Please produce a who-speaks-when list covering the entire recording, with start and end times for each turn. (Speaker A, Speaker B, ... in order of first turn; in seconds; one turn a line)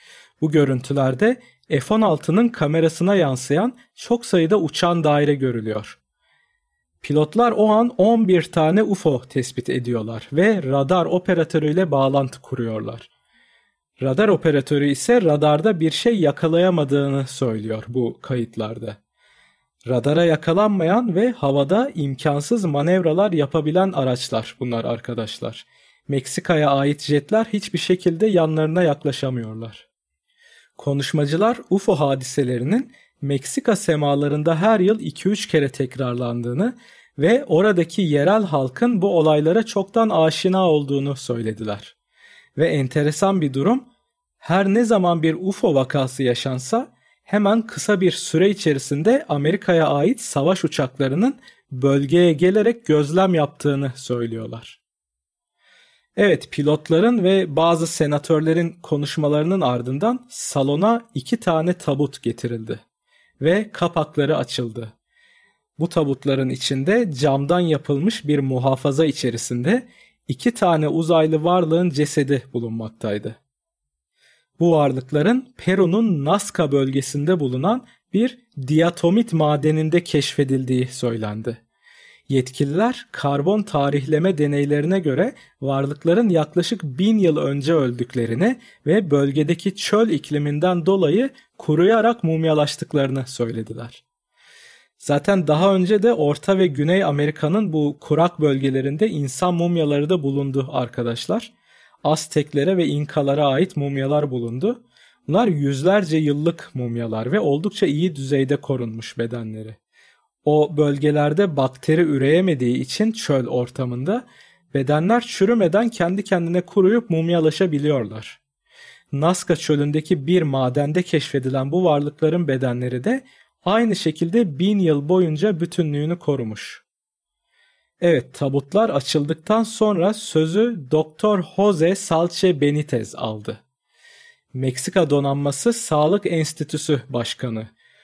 Speaker A: 0.4-6.0
Speaker A: 7.0-13.1
Speaker A: 14.0-19.0
Speaker A: 19.8-29.9
Speaker A: 30.8-41.9
Speaker A: 42.5-43.9
Speaker A: 44.4-54.8
Speaker A: 56.1-62.8
Speaker A: 63.4-64.9
Speaker A: 65.8-73.4
Speaker A: 74.6-81.6
Speaker A: 82.3-94.0
Speaker A: 95.0-101.5
Speaker A: 102.0-109.8
Speaker A: 110.4-118.4
Speaker A: 119.1-126.8
Speaker A: 128.0-133.6
Speaker A: 134.5-137.7